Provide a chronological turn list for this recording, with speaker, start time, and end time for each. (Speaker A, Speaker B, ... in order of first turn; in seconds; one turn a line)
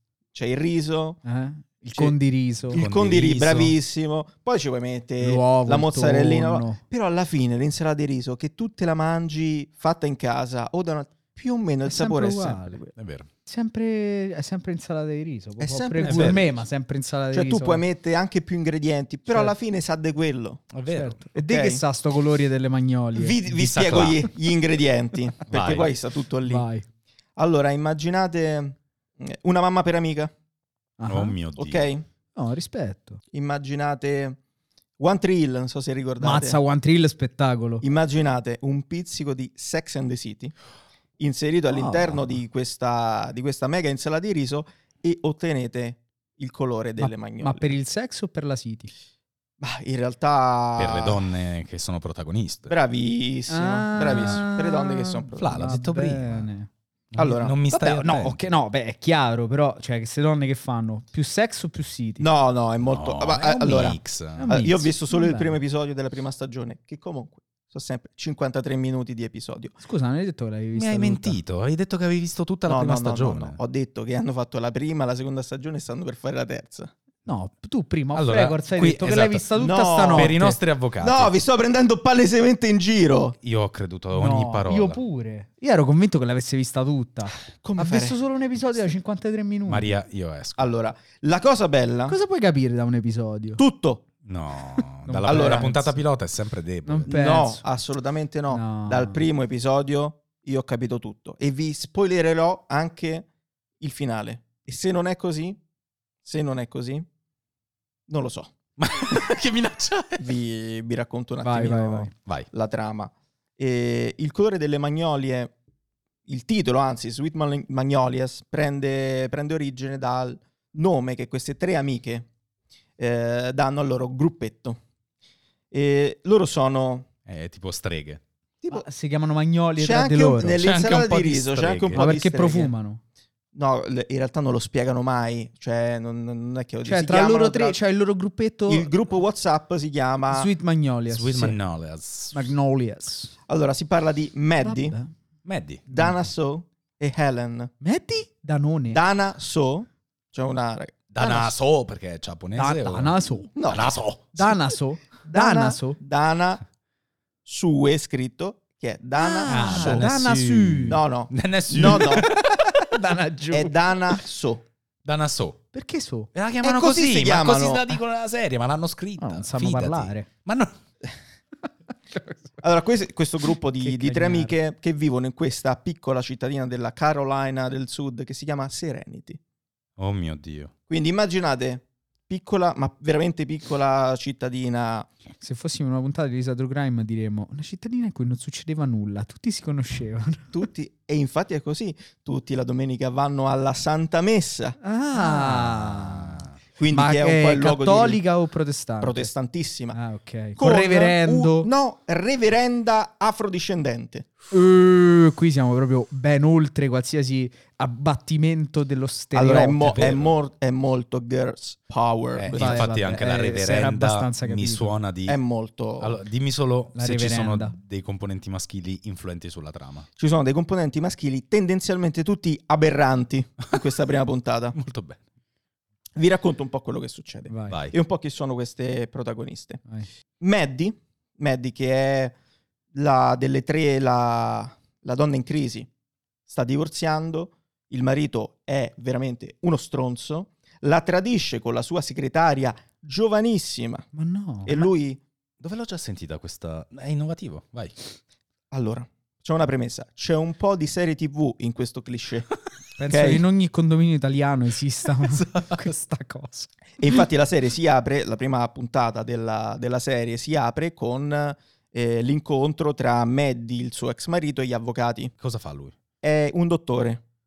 Speaker A: 0.3-1.2
Speaker B: 1.2-2.8
Speaker A: 2.7-12.9
Speaker C: 2.7-3.8
Speaker B: 5.2-6.8
Speaker B: 11.8-12.8
Speaker C: 13.0-13.3
Speaker B: 13.5-17.8
Speaker A: 15.6-16.4
Speaker C: 16.0-16.4
Speaker A: 17.3-20.7
Speaker B: 19.3-19.6
Speaker C: 20.7-21.2
Speaker B: 20.9-23.4
Speaker A: 21.4-21.8
Speaker A: 23.1-26.7
Speaker C: 23.5-24.2
Speaker C: 25.5-25.9
Speaker B: 26.4-26.9
Speaker A: 27.4-30.3
Speaker B: 31.0-31.3
Speaker C: 31.1-31.9
Speaker A: 31.6-32.0
Speaker B: 32.4-33.2
Speaker A: 33.3-34.4
Speaker A: 35.0-36.6
Speaker B: 36.2-37.8
Speaker A: 37.8-40.5
Speaker A: 41.2-47.7
Speaker B: 41.7-42.4
Speaker B: 47.0-48.9
Speaker A: 49.6-51.2
Speaker C: 50.8-52.7
Speaker A: 52.7-55.7
Speaker B: 53.5-56.7
Speaker C: 54.0-54.4
Speaker C: 55.4-56.5
Speaker C: 57.1-58.5
Speaker A: 57.2-57.6
Speaker B: 57.7-62.2
Speaker A: 62.2-69.8
Speaker C: 62.8-64.5
Speaker B: 64.4-65.6
Speaker B: 69.8-71.4
Speaker C: 70.7-73.6
Speaker A: 72.7-76.9
Speaker B: 77.3-80.6
Speaker C: 78.2-81.3
Speaker A: 79.6-80.4
Speaker A: 81.0-83.4
Speaker C: 83.4-85.0
Speaker B: 84.1-90.0
Speaker A: 87.5-88.2
Speaker C: 89.7-90.7
Speaker A: 90.6-92.2
Speaker B: 92.1-93.6
Speaker A: 93.6-94.0
Speaker C: 94.2-97.1
Speaker B: 95.0-95.9
Speaker A: 95.3-95.8
Speaker B: 96.8-97.6
Speaker A: 97.1-103.3
Speaker B: 98.5-99.2
Speaker A: 103.8-105.6
Speaker A: 106.2-107.1
Speaker A: 108.1-108.5
Speaker C: 108.8-110.3
Speaker A: 110.2-115.5
Speaker B: 111.4-112.1
Speaker A: 116.3-122.3
Speaker A: 123.0-124.8
Speaker A: 125.7-127.1
Speaker C: 127.3-128.2
Speaker B: 128.7-130.7
Speaker A: 129.8-132.7
Speaker C: 130.6-132.2
Speaker B: 131.9-133.0
Speaker A: 133.5-137.8
Speaker B: 136.8-138.9
Speaker A: 138.7-140.5
Speaker B: 140.3-141.6
Speaker C: 141.1-142.5
Speaker B: 142.3-143.3
Speaker A: 143.5-145.0
Speaker B: 144.6-145.1
Speaker C: 145.4-145.8
Speaker B: 145.9-146.2
Speaker A: 145.9-147.7
Speaker B: 147.8-149.0
Speaker A: 148.9-151.5
Speaker C: 151.1-154.5
Speaker B: 152.6-153.5
Speaker A: 153.5-153.8
Speaker B: 154.4-156.0
Speaker A: 155.3-156.6
Speaker A: 157.4-160.1
Speaker C: 159.2-162.5
Speaker B: 159.4-161.0
Speaker A: 160.8-162.3
Speaker B: 161.9-163.8
Speaker A: 163.5-164.6
Speaker C: 165.0-165.6
Speaker B: 165.7-166.3
Speaker C: 166.3-170.7
Speaker A: 166.6-168.0
Speaker B: 169.2-170.3
Speaker B: 172.1-172.6
Speaker A: 172.6-179.4
Speaker B: 173.7-174.6
Speaker C: 180.0-180.7
Speaker A: 180.9-185.1
Speaker B: 185.4-190.5
Speaker A: 190.5-194.8
Speaker B: 194.8-199.3
Speaker C: 195.2-196.5
Speaker A: 196.8-198.2
Speaker A: 199.0-200.0
Speaker B: 199.9-201.7
Speaker A: 200.6-204.3
Speaker B: 204.5-210.0
Speaker A: 209.3-212.9
Speaker C: 209.8-210.4
Speaker C: 212.3-215.4
Speaker B: 212.6-214.9
Speaker A: 215.3-216.2
Speaker C: 216.0-220.1
Speaker B: 216.9-217.8
Speaker A: 220.2-224.8
Speaker C: 224.8-225.2
Speaker A: 226.2-229.8
Speaker B: 227.5-227.8
Speaker C: 227.7-228.0
Speaker A: 230.4-232.3
Speaker A: 232.9-235.9
Speaker A: 236.5-244.1
Speaker B: 244.1-244.9
Speaker A: 244.7-245.2
Speaker C: 245.6-248.0
Speaker A: 248.7-252.5
Speaker B: 253.0-256.7
Speaker A: 253.0-253.4
Speaker A: 257.0-265.3
Speaker C: 265.4-265.9
Speaker A: 266.2-267.2